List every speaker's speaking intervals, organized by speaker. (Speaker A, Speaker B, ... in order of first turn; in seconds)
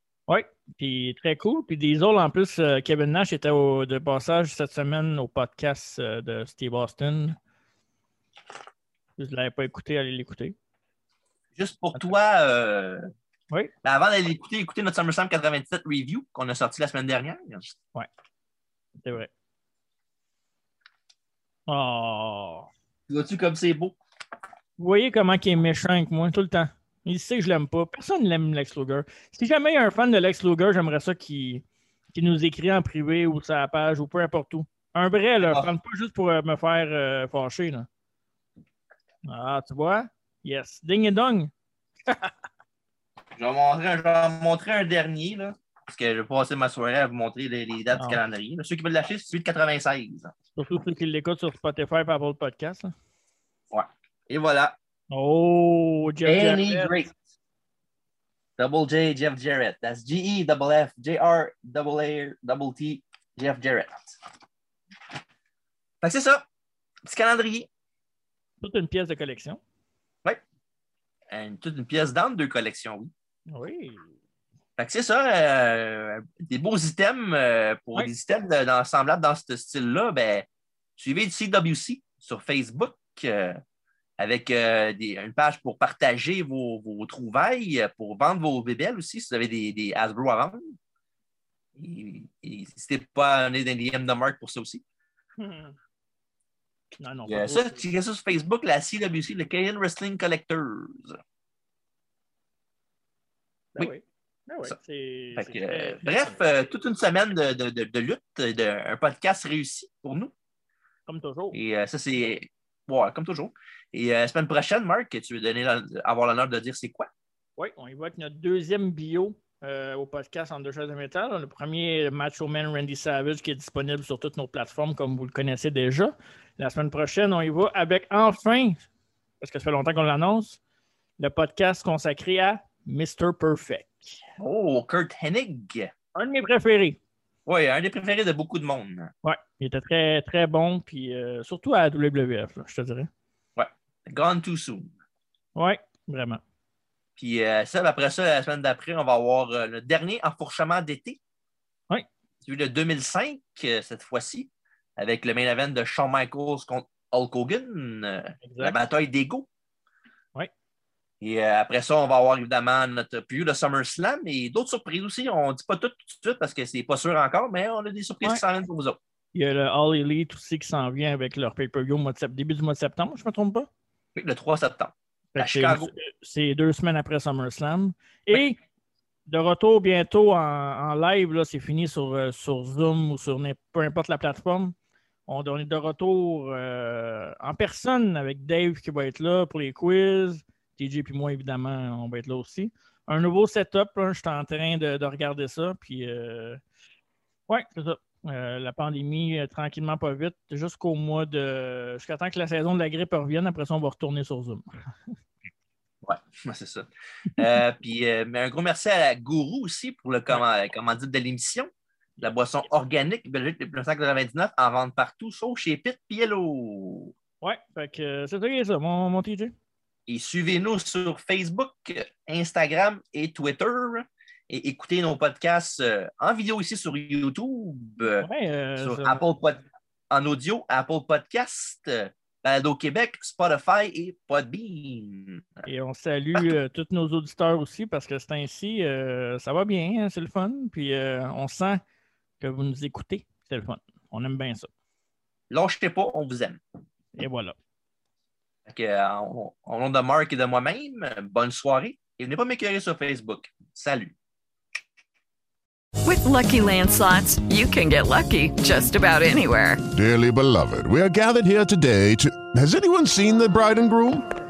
Speaker A: 0.3-7.4, 9.2-10.6, 19.0-19.3, 21.7-22.7, 24.8-37.9, 39.3-41.5, 42.1-42.3, 50.6-52.9, 55.1-57.0, 68.6-69.6, 73.5-74.1, 95.4-95.8, 97.0-97.8, 103.8-106.4, 111.1-111.6, 117.6-128.8, 129.4-130.6, 131.2-134.2, 136.2-137.0, 139.2-143.1, 145.6-146.4, 158.4-158.8, 169.3-173.7, 175.3-178.6, 179.3-184.8, 185.3-196.6, 197.5-204.7, 217.4-219.5, 228.2-229.2, 235.7-241.8, 242.4-244.7, 247.2-247.6
Speaker B: 11.6-13.1, 13.8-17.7, 23.1-24.0, 35.4-35.7, 43.4-50.3, 53.7-54.8, 56.2-57.1, 58.6-64.2, 66.0-66.4, 67.0-67.7, 71.3-73.1, 74.8-80.5, 81.0-83.6, 84.2-90.8, 91.8-94.8, 97.3-101.2, 105.4-110.3, 111.5-117.1, 134.4-135.9, 137.5-139.1, 143.6-144.9, 147.2-151.2, 152.4-159.5, 161.2-169.0, 174.2-175.9, 206.0-211.7, 212.2-217.1, 220.1-235.6, 245.5-246.6, 248.7-254.1
Speaker C: 256.0-259.8
Speaker D: 259.9-264.2